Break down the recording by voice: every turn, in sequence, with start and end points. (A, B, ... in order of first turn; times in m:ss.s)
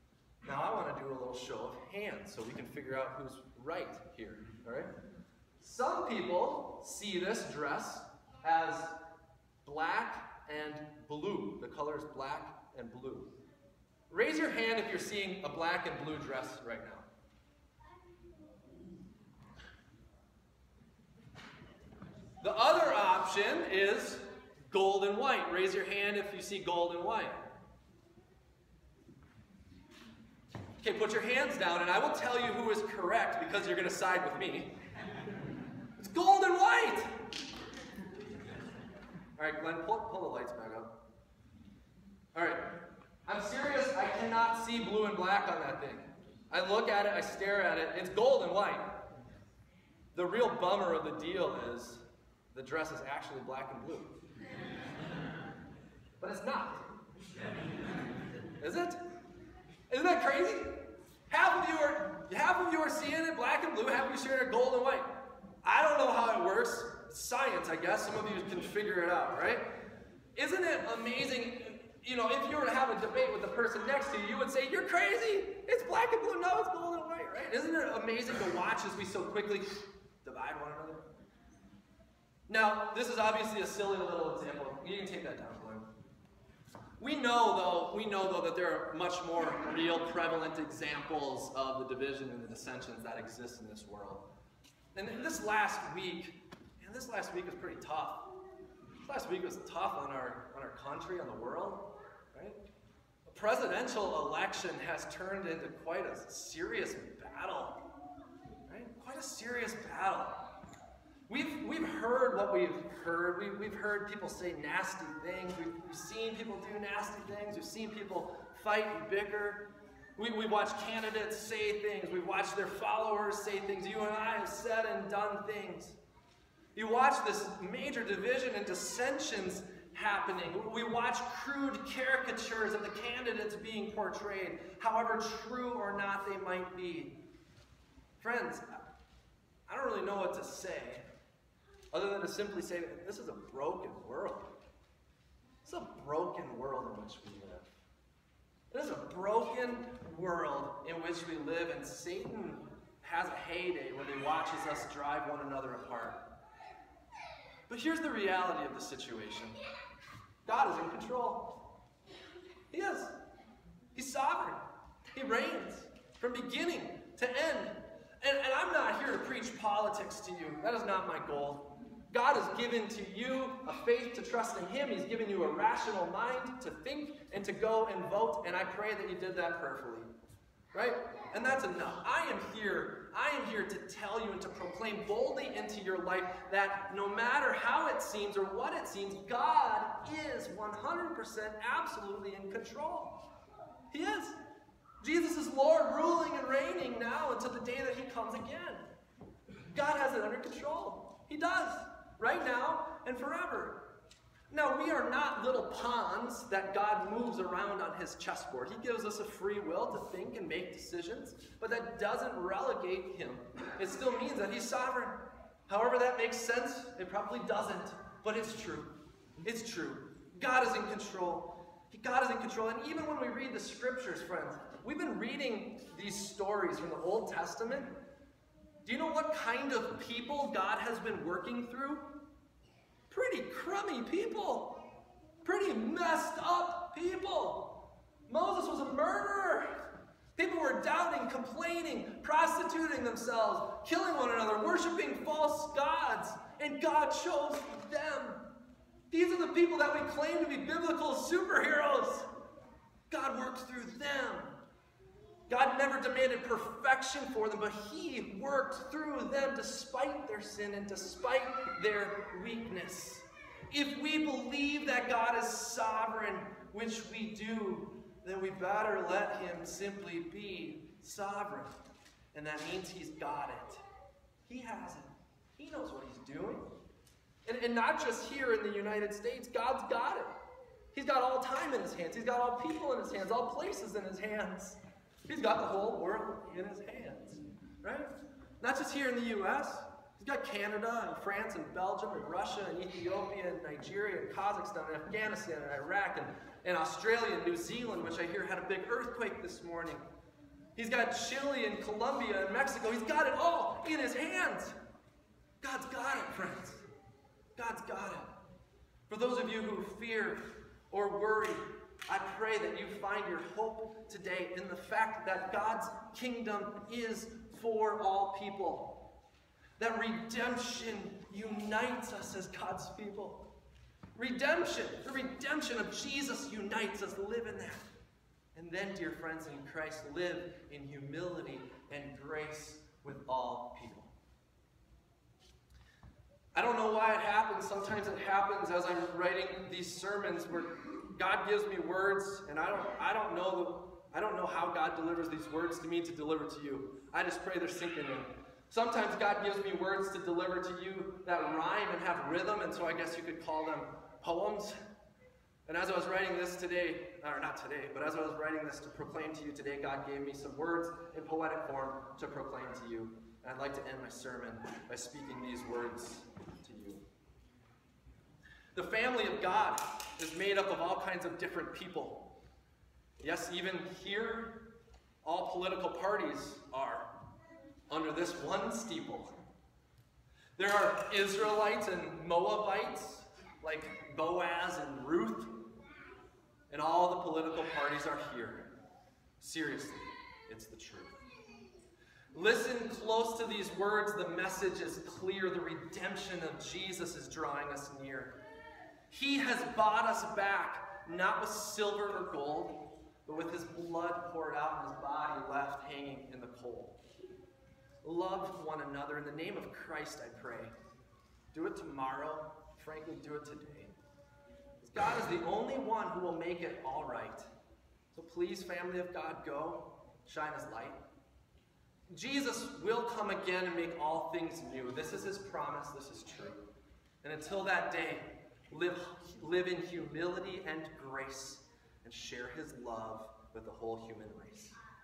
0:00.4-0:04.9 A
0:05.6-0:09.0 A
0:09.6-0:13.3 A
0:14.1-0:17.1 A
0:22.4-0:27.5 A
0:30.8-0:34.7 A
0:36.0-0:37.2 A
0:39.4-0:40.9 A
0:42.3-0:49.0 A
0:50.1-0:54.2 A
0:56.2-0:56.9 A
0:58.6-0:59.0 A
0:59.9-1:05.1 A
1:05.6-1:09.7 A
1:10.4-1:21.1 A
1:22.5-1:25.9 A
1:27.0-1:34.2 A
1:35.0-1:38.4 A
1:39.0-1:42.6 A
1:43.3-1:47.8 A
1:48.7-1:50.4 A
1:51.3-2:06.0 A
2:06.8-2:17.2 A
2:18.2-2:18.8 A
2:19.7-2:21.0 A
2:21.9-2:24.5 A
2:25.6-2:27.7 A
2:28.7-2:36.2 A
2:37.7-2:39.6 A
2:40.4-2:41.5 A
2:42.7-2:43.2 A
2:43.9-2:44.6 A
2:45.1-3:00.1 A
3:00.7-3:13.2 A
3:13.9-3:14.4 A
3:15.0-3:18.8 A
3:19.7-3:23.8 A
3:24.5-3:47.9 A
3:48.8-3:52.1 A
3:53.1-3:54.8 A
3:55.4-3:57.8 A
3:58.3-3:59.7 A
4:00.4-4:08.4 A
4:09.1-4:12.3 A
4:13.1-4:14.6 A
4:15.5-4:31.8 A
4:32.3-4:33.8 A
4:34.5-4:36.7 A
4:37.4-4:40.3 A
4:40.9-5:00.0 A
5:00.8-5:04.7 A
5:05.6-5:06.8 A
5:07.6-5:08.3 A
5:09.1-5:19.0 A
5:19.8-5:23.4 A
5:24.2-5:27.8 A
5:28.6-5:34.1 A
5:36.5-5:54.8 A
5:55.7-6:07.0 A
6:08.8-6:12.3 A
6:13.2-6:14.7 A
6:15.2-6:17.1 A
6:17.9-6:19.4 A
6:20.6-6:25.6 A
6:26.7-6:28.7 A
6:29.4-6:31.2 A
6:32.3-6:38.4 A
6:39.1-6:47.0 A
6:48.0-6:50.7 A
6:51.5-6:54.0 A
6:54.8-6:57.5 A
6:58.1-7:01.0 A
7:02.1-7:06.6 A
7:07.2-7:14.8 A